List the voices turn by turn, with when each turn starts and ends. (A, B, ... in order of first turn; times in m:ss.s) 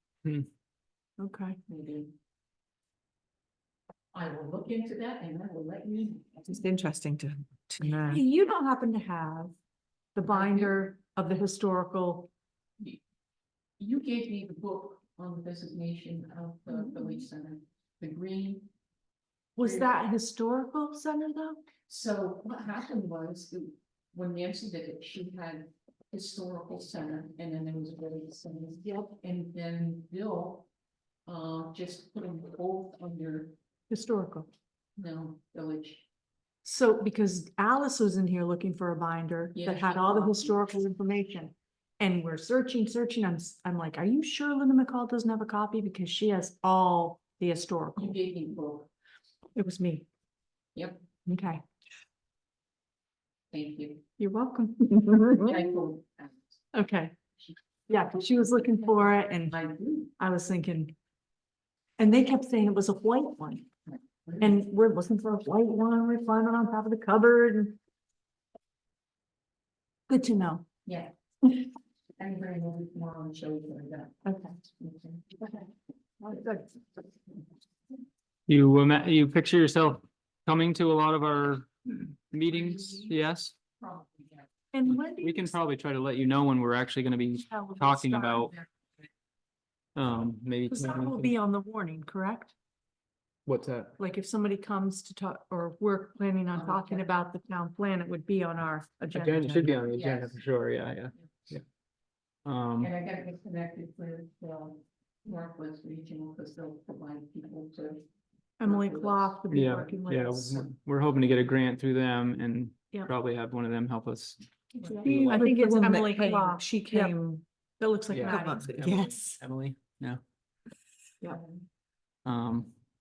0:01.2-0:01.6 A
0:01.7-0:02.1 B
0:04.1-0:06.6 B
0:06.5-0:08.2 C
0:08.0-0:09.5 A
0:10.1-0:12.3 A
0:10.3-0:10.8 B
0:13.8-0:18.7 B
0:16.7-0:17.3 A
0:19.6-0:21.6 A
0:19.6-0:20.1 B
0:21.9-0:30.7 B
0:28.8-0:29.1 A
0:31.3-0:33.6 B
0:33.9-0:34.5 A
0:35.0-0:36.0 B
0:36.6-0:48.2 A
0:39.5-0:40.6 B
0:48.0-0:48.9 B
0:49.5-0:50.0 A
0:50.8-0:51.0 B
0:51.2-0:51.6 A
0:53.5-0:54.0 B
0:54.2-0:55.5 A
0:55.3-0:56.6 B
0:56.7-0:57.1 A
0:57.9-0:59.6 A
0:58.5-1:00.1 B
1:00.2-1:00.9 A
1:02.0-1:03.6 A
1:04.2-1:04.6 B
1:04.4-1:07.8 A
1:10.1-1:10.6 A
1:10.8-1:11.1 B
1:12.2-1:15.5 B
1:14.2-1:14.5 A
1:16.2-1:16.7 A
1:18.5-1:23.5 D
1:22.4-1:23.2 B
1:23.8-1:24.5 B
1:24.7-1:25.5 A
1:24.9-1:28.5 D
1:27.5-1:28.5 A
1:30.0-1:31.3 D
1:30.7-1:32.5 A
1:33.4-1:34.0 D
1:34.0-1:39.8 A
1:36.5-1:37.0 B
1:39.1-1:41.6 D
1:39.9-1:40.4 B
1:42.4-1:42.9 D
1:42.8-1:48.0 B
1:48.6-1:50.6 A
1:48.6-1:49.4 B
1:49.5-1:54.4 D
1:54.8-1:55.3 B
1:54.8-1:58.8 A
1:55.0-1:57.2 C
1:55.0-1:55.4 D
1:58.1-2:00.2 D
1:58.2-1:59.4 C
2:01.2-2:01.6 B
2:02.2-2:02.7 D